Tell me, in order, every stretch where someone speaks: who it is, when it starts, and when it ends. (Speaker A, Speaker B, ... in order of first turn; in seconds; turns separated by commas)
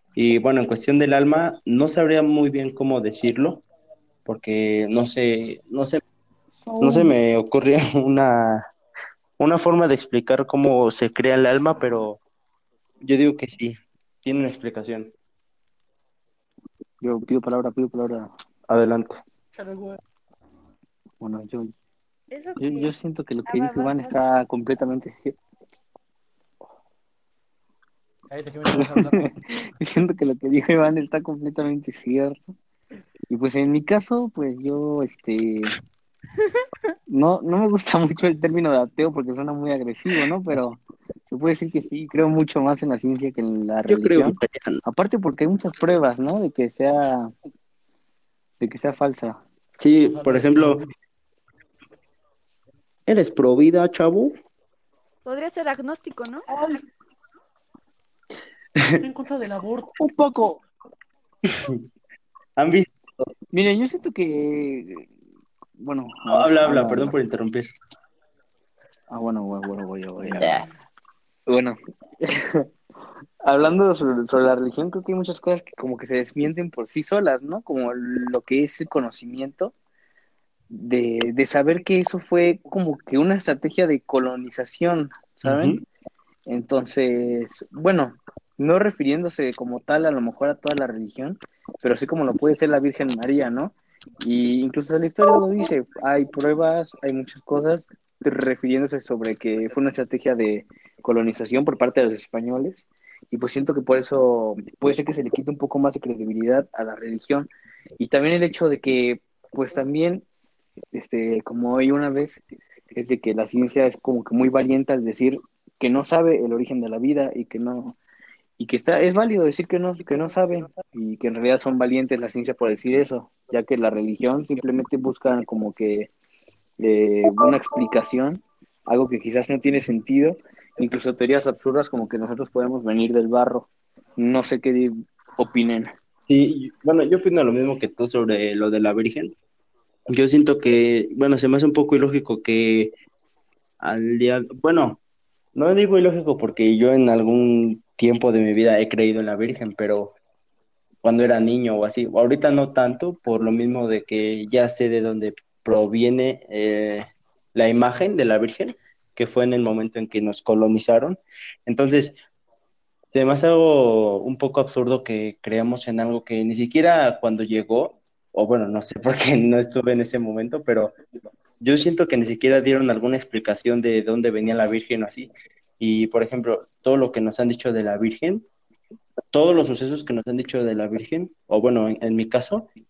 Speaker A: 0.1-3.6, Speaker A: 4.2-6.0, Speaker B: 6.6-7.1, Speaker A: 6.8-8.6, Speaker A: 9.4-12.2, Speaker A: 13.0-15.1, Speaker B: 17.0-18.3, Speaker A: 18.7-19.2, Speaker C: 19.5-20.0, Speaker B: 21.2-21.7, Speaker D: 22.3-22.9, Speaker B: 22.6-25.4, Speaker D: 23.4-24.2, Speaker C: 28.3-29.2, Speaker B: 28.7-32.5, Speaker B: 33.3-35.7, Speaker B: 37.1-47.3, Speaker A: 43.9-44.8, Speaker B: 48.6-49.4, Speaker A: 49.8-50.8, Speaker C: 50.0-50.9, Speaker A: 53.1-54.4, Speaker D: 55.2-56.5, Speaker C: 59.0-60.0, Speaker B: 60.0-60.6, Speaker A: 61.5-61.8, Speaker A: 62.6-62.9, Speaker B: 63.5-65.1, Speaker B: 65.8-67.1, Speaker A: 66.2-67.7, Speaker B: 69.1-70.6, Speaker A: 70.2-70.7, Speaker B: 71.5-72.7, Speaker B: 73.4-79.7, Speaker B: 80.7-85.8, Speaker A: 85.4-85.8, Speaker B: 86.5-110.2, Speaker B: 110.9-118.0, Speaker B: 118.6-126.1, Speaker B: 126.8-135.9, Speaker A: 136.3-139.3, Speaker A: 140.1-142.9, Speaker A: 143.8-145.0, Speaker A: 145.5-150.1, Speaker A: 151.0-162.2, Speaker A: 163.1-170.9, Speaker A: 171.6-178.4, Speaker A: 179.3-182.7